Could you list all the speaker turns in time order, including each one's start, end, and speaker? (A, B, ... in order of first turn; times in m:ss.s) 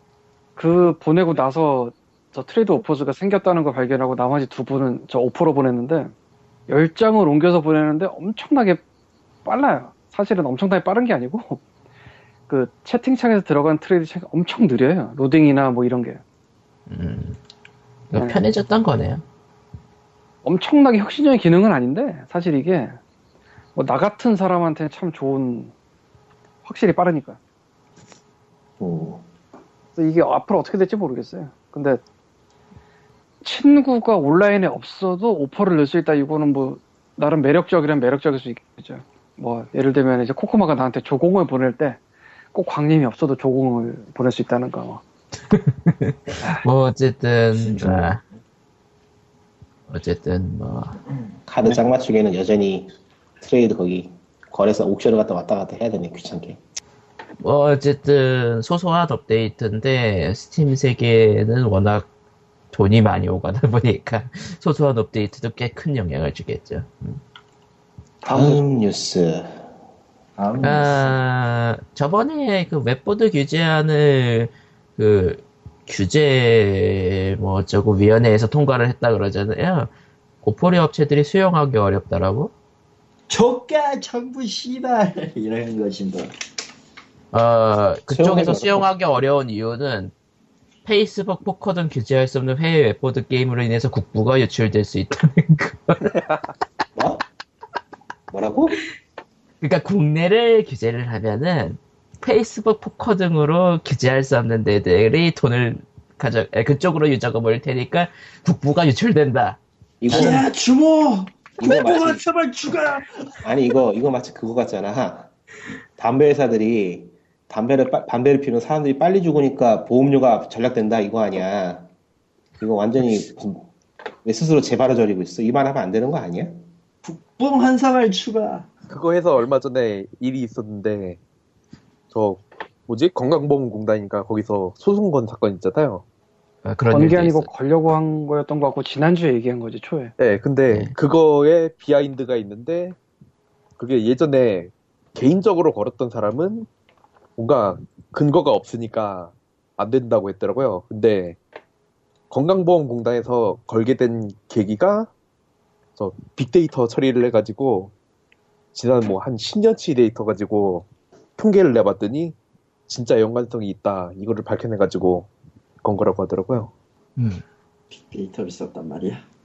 0:00.6-0:06.1 A
0:06.7-0:08.8 A
0:09.4-0:11.6 A
0:12.5-0:16.2 A
0:16.9-0:17.4 B
0:18.1-0:19.2 B
0:18.2-0:18.4 A
0:20.4-0:23.0 A
0:23.8-0:25.7 A
0:26.6-0:27.4 A
0:28.8-0:29.2 C
0:30.0-0:32.0 A
0:33.4-0:42.0 A
0:42.5-0:45.0 A
0:45.5-0:48.2 B
0:47.6-0:48.2 D
0:49.9-0:51.0 B
0:51.5-0:56.6 C
0:57.4-1:02.1 B
1:02.7-1:07.2 B
1:08.2-1:08.6 A
1:08.3-1:09.7 C
1:10.4-1:11.1 D
1:10.6-1:19.9 B
1:20.4-1:22.5 B
1:23.3-1:26.3 D
1:27.3-1:30.1 B
1:28.1-1:28.9 C
1:30.8-1:36.1 B
1:37.0-1:37.2 C
1:38.3-1:38.8 C
1:39.6-1:49.6 B
1:50.0-1:50.5 C
1:50.1-1:53.4 D
1:51.6-1:52.2 C
1:53.4-1:55.3 C
1:56.0-2:01.9 C
2:02.6-2:03.7 C
2:04.2-2:06.6 C
2:07.0-2:08.7 D
2:08.9-2:11.2 E
2:12.1-2:16.0 E
2:16.6-2:17.5 B
2:16.9-2:20.2 A
2:20.2-2:23.0 E
2:20.7-2:20.9 B
2:23.8-2:26.7 E
2:27.4-2:31.4 E
2:32.3-2:35.1 E
2:36.0-2:37.9 E
2:38.7-2:42.4 E
2:42.9-2:45.3 E
2:45.8-2:46.7 E
2:47.2-2:47.4 B
2:47.9-2:49.2 D